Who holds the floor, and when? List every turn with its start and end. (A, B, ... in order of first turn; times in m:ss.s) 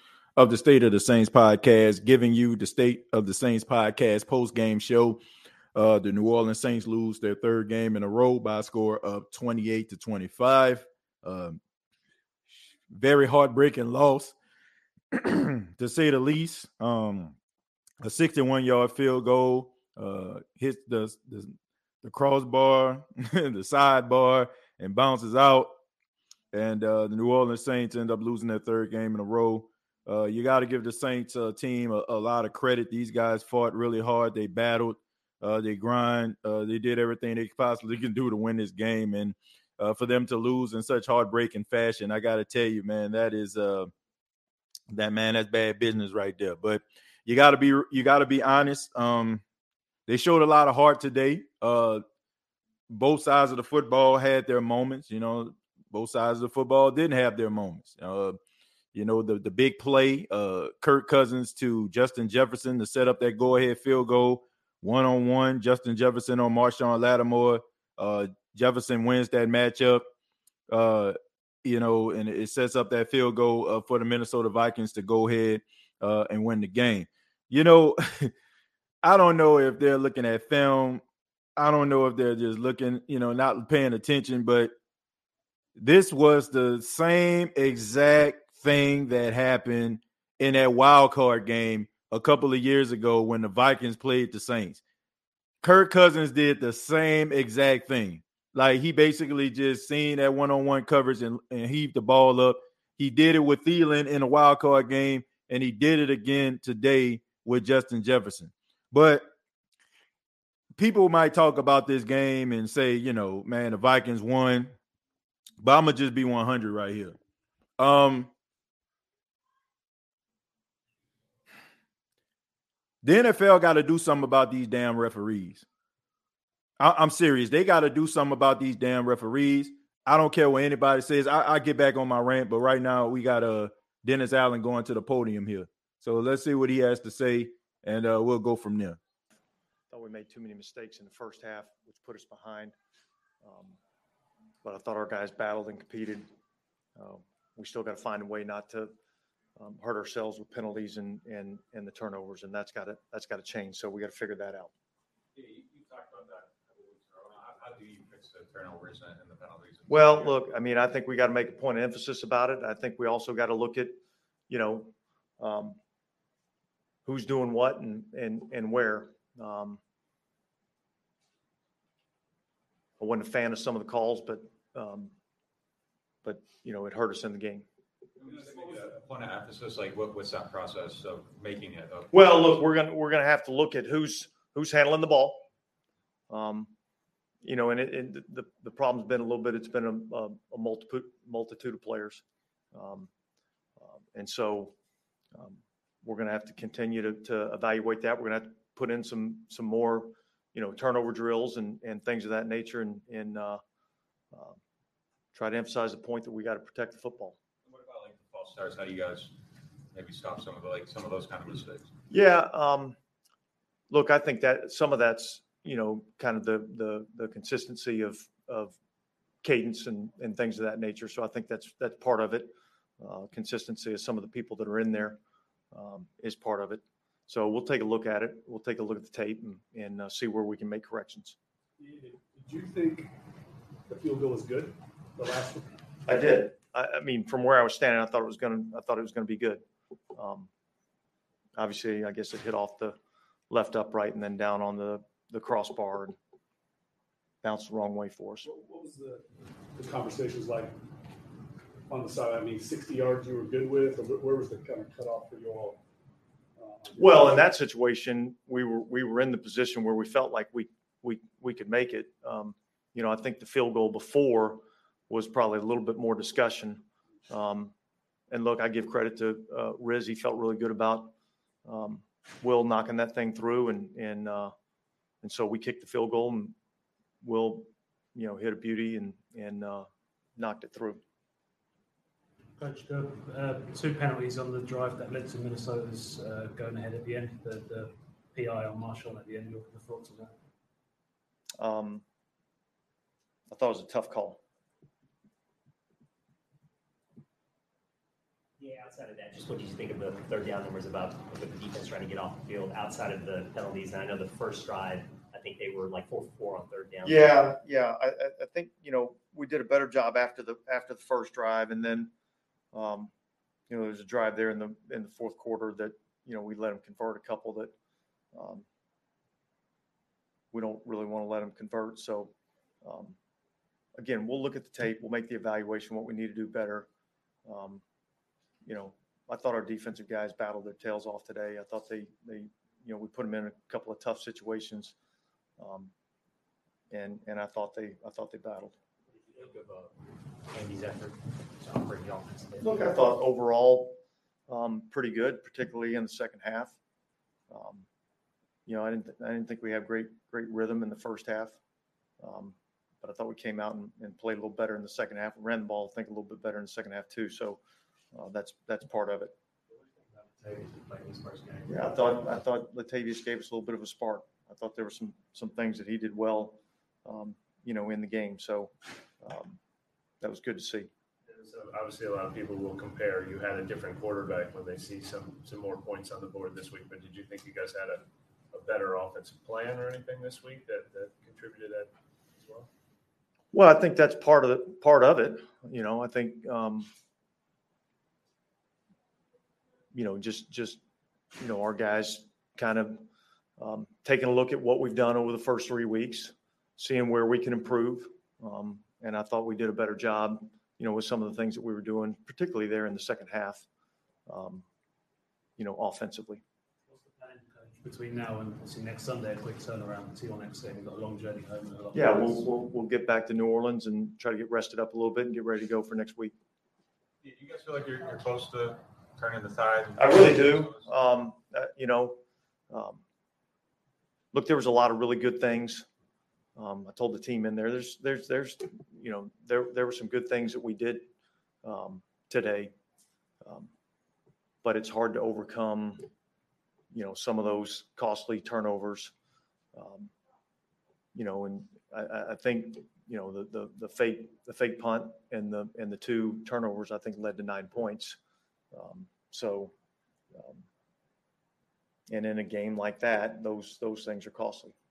0:00.4-0:05.2 A
0:05.7-0:11.6 A
0:12.9-0:14.3 A
0:15.1-0:17.3 A
0:18.0-0:25.7 A
0:26.5-0:43.9 A
0:44.9-0:49.4 A
0:50.1-0:52.0 A
0:52.9-0:58.4 A
0:58.9-1:10.0 A
1:10.7-1:18.3 A
1:19.0-1:21.0 A
1:21.6-1:24.7 A
1:25.8-1:34.8 A
1:35.6-1:49.3 A
1:50.8-1:54.7 A
1:55.6-1:57.2 A
1:57.8-1:58.3 A
2:03.0-2:05.6 A
2:06.8-2:19.0 A
2:19.9-2:22.7 B
2:23.4-2:23.8 B
2:24.6-2:26.3 B
2:27.0-2:28.9 B
2:29.6-2:34.7 B
2:35.3-2:40.4 C
2:39.9-2:45.8 B
2:47.0-2:49.8 B
2:53.0-2:55.1 B
2:56.2-2:57.6 B
2:58.2-3:02.6 C
3:02.1-3:05.4 B
3:06.3-3:06.7 B
3:07.4-3:12.2 B
3:12.7-3:13.1 B
3:13.8-3:14.7 B
3:15.3-3:23.6 B
3:24.3-3:24.6 B
3:25.3-3:27.4 B
3:27.6-3:29.3 C
3:29.9-3:31.9 C
3:32.1-3:33.0 B
3:33.9-3:38.8 B
3:39.4-3:45.2 B
3:45.7-3:51.4 B
3:51.8-3:53.1 D
3:53.9-3:56.4 D
3:56.1-3:59.6 B
4:00.1-4:00.5 B
4:01.6-4:03.0 B
4:03.5-4:06.2 B
4:07.4-4:08.5 B
4:08.4-4:10.7 D
4:11.9-4:15.8 D
4:16.6-4:17.4 D
4:16.9-4:27.7 B
4:28.3-4:31.1 B
4:31.6-4:34.5 B
4:35.2-4:36.5 B
4:37.2-4:41.0 B
4:42.6-4:50.3 E
4:51.6-4:52.0 B
4:53.5-4:54.4 B
4:58.6-5:07.4 F
5:07.0-5:12.1 B
5:12.7-5:13.1 B
5:13.7-5:17.7 B
5:18.3-5:18.6 B
5:20.5-5:22.3 B
5:22.8-5:23.2 B
5:24.0-5:26.9 B
5:27.4-5:27.8 B
5:28.6-5:34.9 B
5:35.6-5:35.9 B
5:36.9-5:38.7 B
5:39.3-5:39.9 F
5:40.5-5:43.0 F
5:42.6-5:44.0 B
5:44.5-5:46.7 B
5:47.5-5:47.8 B
5:48.6-5:51.6 B
5:52.2-5:57.6 B
5:58.1-5:59.3 B
6:00.1-6:01.8 G
6:01.7-6:09.6 B
6:10.2-6:10.9 B
6:11.2-6:22.7 G
6:23.5-6:26.9 B
6:29.9-6:30.8 B
6:31.4-6:33.0 B
6:33.6-6:43.6 B
6:44.3-6:44.6 B
6:45.6-6:46.4 B
6:46.9-6:52.4 E
6:51.9-6:56.3 B
6:57.2-7:00.9 C
7:00.0-7:02.2 B
7:02.7-7:03.0 B
7:04.3-7:05.8 B
7:06.6-7:11.0 B
7:11.6-7:12.7 B
7:13.4-7:13.7 B
7:14.6-7:16.0 B
7:16.9-7:19.1 B
7:19.7-7:20.1 B
7:21.1-7:28.2 B
7:28.7-7:29.7 B
7:30.3-7:30.6 B
7:32.1-7:34.7 B